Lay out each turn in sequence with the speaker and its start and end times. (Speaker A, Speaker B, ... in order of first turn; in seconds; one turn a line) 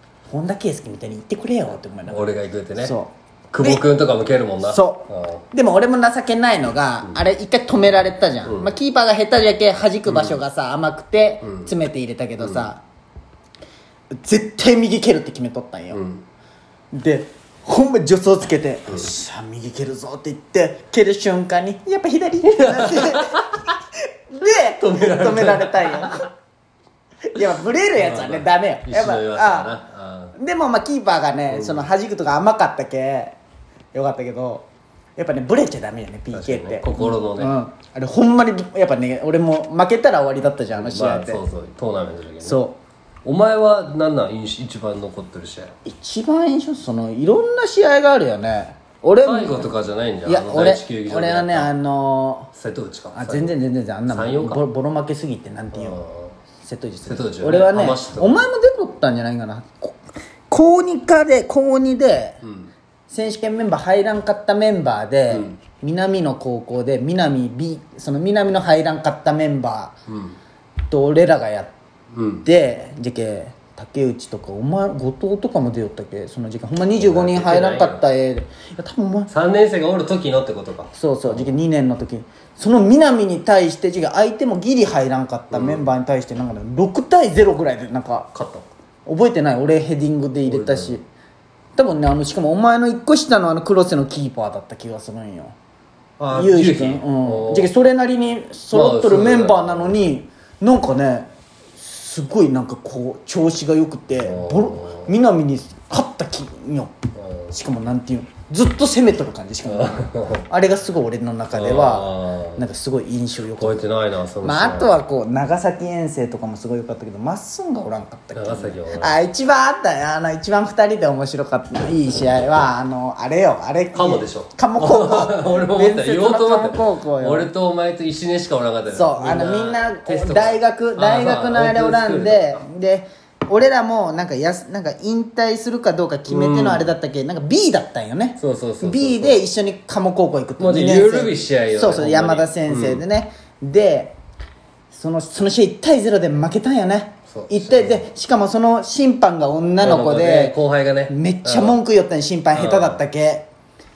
Speaker A: 0.3-3.8
Speaker B: 2.1-3.0
Speaker B: 3.5-5.4
Speaker A: 4.6-12.8
Speaker B: 8.4-8.7
Speaker B: 10.1-10.4
Speaker B: 11.4-11.7
Speaker B: 12.4-12.7
Speaker A: 14.1-16.0
Speaker B: 15.9-16.2
Speaker A: 16.9-23.8
Speaker B: 22.4-23.7
Speaker A: 24.3-26.3
Speaker B: 24.8-26.3
Speaker A: 27.3-29.8
Speaker B: 27.9-30.4
Speaker A: 30.4-33.4
Speaker B: 31.5-31.8
Speaker A: 33.9-41.4
Speaker B: 36.3-37.5
Speaker B: 40.7-42.6
Speaker A: 42.4-42.8
Speaker B: 43.2-45.7
Speaker A: 45.8-49.7
Speaker B: 49.2-51.7
Speaker A: 50.2-52.5
Speaker B: 52.5-53.5
Speaker A: 53.1-56.0
Speaker B: 54.1-54.6
Speaker B: 55.7-56.4
Speaker A: 56.6-62.4
Speaker B: 57.0-58.4
Speaker B: 62.4-62.7
Speaker A: 63.1-70.0
Speaker B: 65.3-65.6
Speaker B: 70.1-70.4
Speaker A: 70.9-71.7
Speaker B: 72.1-72.5
Speaker A: 72.4-79.3
Speaker B: 77.0-78.0
Speaker B: 79.3-81.5
Speaker A: 80.9-88.3
Speaker B: 85.5-85.8
Speaker B: 88.3-88.7
Speaker A: 89.0-91.0
Speaker B: 90.5-91.0
Speaker A: 91.8-95.5
Speaker B: 96.2-97.7
Speaker A: 96.3-107.0
Speaker B: 98.7-100.0
Speaker B: 104.2-105.1
Speaker B: 107.1-107.5
Speaker A: 107.5-113.8
Speaker B: 109.7-110.5
Speaker B: 111.5-112.7
Speaker B: 113.6-114.9
Speaker A: 114.4-127.5
Speaker B: 118.3-119.2
Speaker B: 123.9-132.6
Speaker A: 128.9-144.2
Speaker B: 136.2-136.9
Speaker B: 138.4-139.4
Speaker B: 140.6-143.0
Speaker A: 144.9-150.6
Speaker B: 147.3-148.1
Speaker B: 149.8-151.8
Speaker A: 151.1-153.5
Speaker B: 152.5-153.0